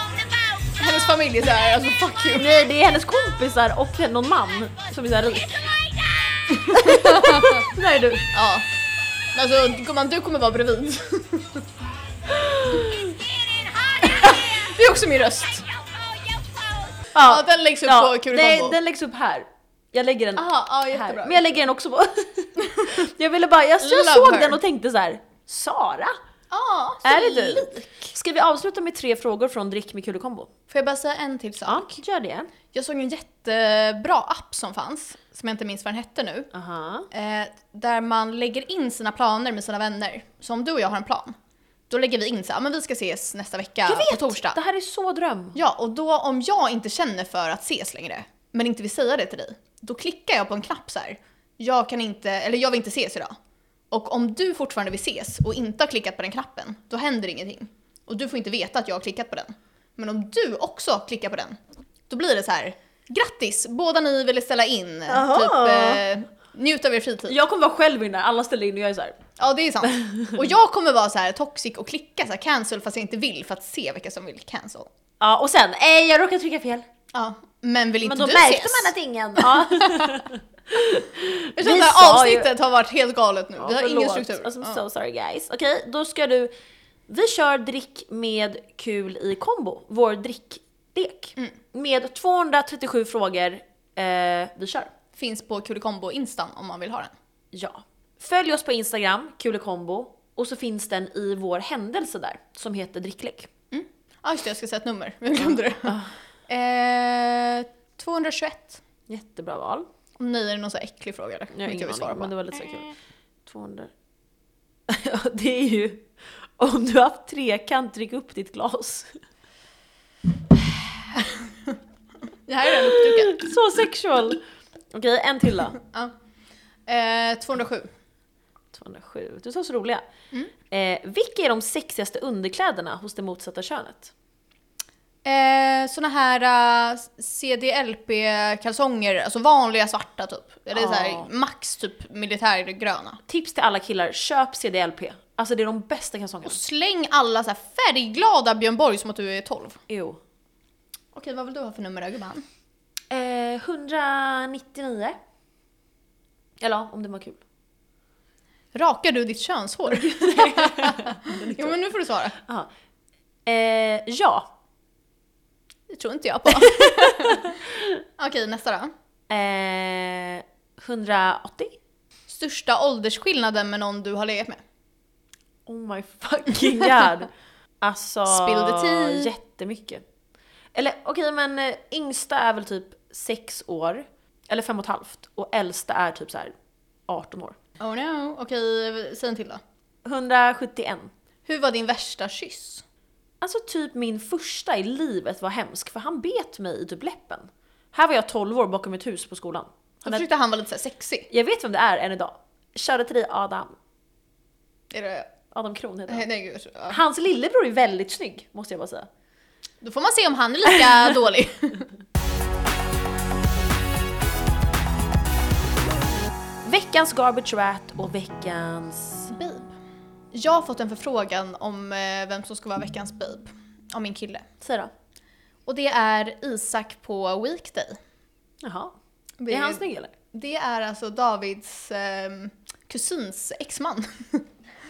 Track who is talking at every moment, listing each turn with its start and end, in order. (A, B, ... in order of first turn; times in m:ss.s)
0:00.8-0:02.5 A
0:02.4-0:05.8 B
0:06.5-0:08.3 B
0:06.6-0:07.6 A
0:08.3-0:08.7 A
0:09.3-0:11.6 A
0:12.3-0:13.2 B
0:14.0-0:15.6 A
0:17.1-0:26.2 B
0:17.2-0:18.8 A
0:20.4-0:21.6 A
0:22.6-0:23.0 A
0:23.8-0:24.6 A
0:26.5-0:28.1 A
0:27.0-0:30.5 B
0:30.7-0:31.9 A
0:31.6-0:32.5 B
0:32.7-0:36.5 A
0:36.5-0:37.1 B
0:37.1-0:41.4 A
0:41.9-0:44.6 A
0:43.9-0:45.6 B
0:45.6-0:53.4 A
0:53.9-1:01.6 A
1:02.1-1:07.4 A
1:05.1-1:06.0 B
1:07.3-1:09.2 B
1:09.4-1:14.9 A
1:09.8-1:10.3 B
1:15.2-1:16.8 B
1:17.1-1:20.2 A
1:18.0-1:22.5 B
1:21.6-1:24.8 A
1:23.6-1:26.5 B
1:27.1-1:34.9 B
1:35.2-1:37.1 A
1:37.5-1:43.5 B
1:43.7-1:46.0 A
1:45.8-1:46.1 B
1:46.5-1:48.8 A
1:49.1-1:49.9 B
1:50.2-1:52.3 A
1:51.5-1:52.9 B
1:53.5-1:53.9 B
1:54.9-1:56.1 B
1:56.6-1:59.1 B
2:02.5-2:03.5 A
2:02.7-2:04.4 B
2:04.9-2:05.8 B
2:06.9-2:07.9 A
2:08.7-2:10.0 B
2:10.7-2:14.1 B
2:15.2-2:23.2 A
2:20.7-2:21.3 B
2:23.3-2:26.6 B
2:26.4-2:29.8 A
2:29.9-2:30.2 B
2:31.2-2:32.4 A
2:33.1-2:35.2 B
2:36.6-2:37.4 B
2:38.7-2:42.4 A
2:39.9-2:41.8 B
2:42.4-2:42.7 B
2:43.5-2:44.5 B
2:45.9-2:47.6 A
2:46.5-2:48.0 B
2:48.2-2:48.9 A
2:49.3-2:51.8 B
2:52.3-2:54.6 A
2:55.7-2:57.3 B
2:57.8-3:00.0 B
2:58.3-2:59.3 A
3:00.7-3:06.5 B
3:07.1-3:07.6 B
3:07.8-3:09.6 A
3:10.0-3:11.1 B
3:11.5-3:12.8 A
3:13.4-3:20.3 B
3:20.0-3:21.3 A
3:21.3-3:23.8 B
3:24.9-3:25.3 A
3:25.5-3:26.3 B
3:26.1-3:27.0 A
3:26.9-3:29.1 B
3:29.8-3:31.9 A
3:36.6-3:39.3 B
3:39.3-3:39.7 A
3:40.3-3:44.5 A
3:44.6-3:44.9 B
3:45.7-3:48.0 A
3:48.6-3:49.0 B
3:49.4-3:54.4 A
3:49.5-3:50.1 B